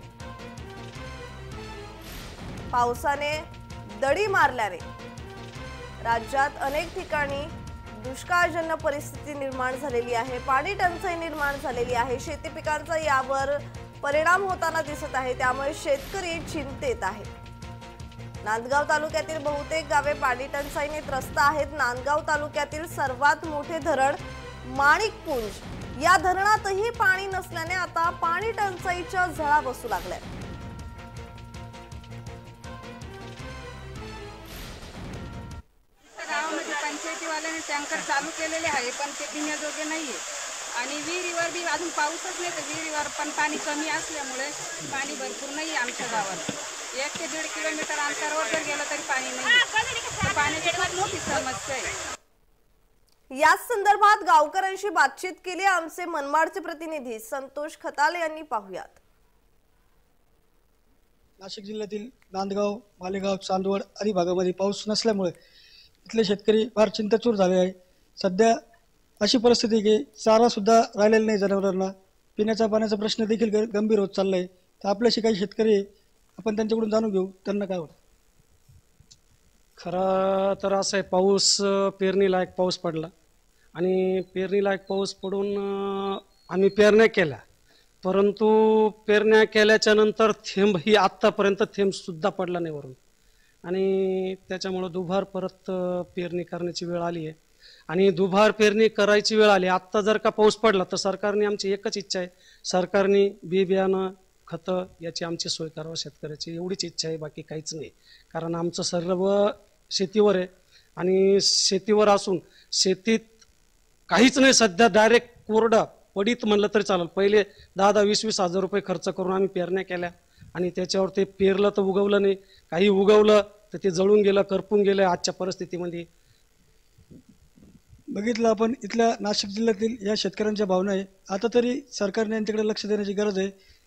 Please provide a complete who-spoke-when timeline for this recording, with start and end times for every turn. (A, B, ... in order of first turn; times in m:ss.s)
0:02.7-0:03.4 A
0:04.0-0:04.8 A
0:06.0-0:17.3 A
0:18.4-0:30.2 A
0:36.2-0:40.2 B
0:40.7-0:51.9 B
0:53.4-0:59.0 A
1:01.4-1:05.3 C
1:06.0-1:08.5 C
1:09.2-1:15.8 C
1:16.4-1:18.0 C
1:19.8-1:23.1 D
1:23.8-1:27.4 D
1:28.0-1:33.0 D
1:33.6-1:37.4 D
1:37.9-1:53.3 D
1:54.1-2:06.0 D
2:08.1-2:13.5 C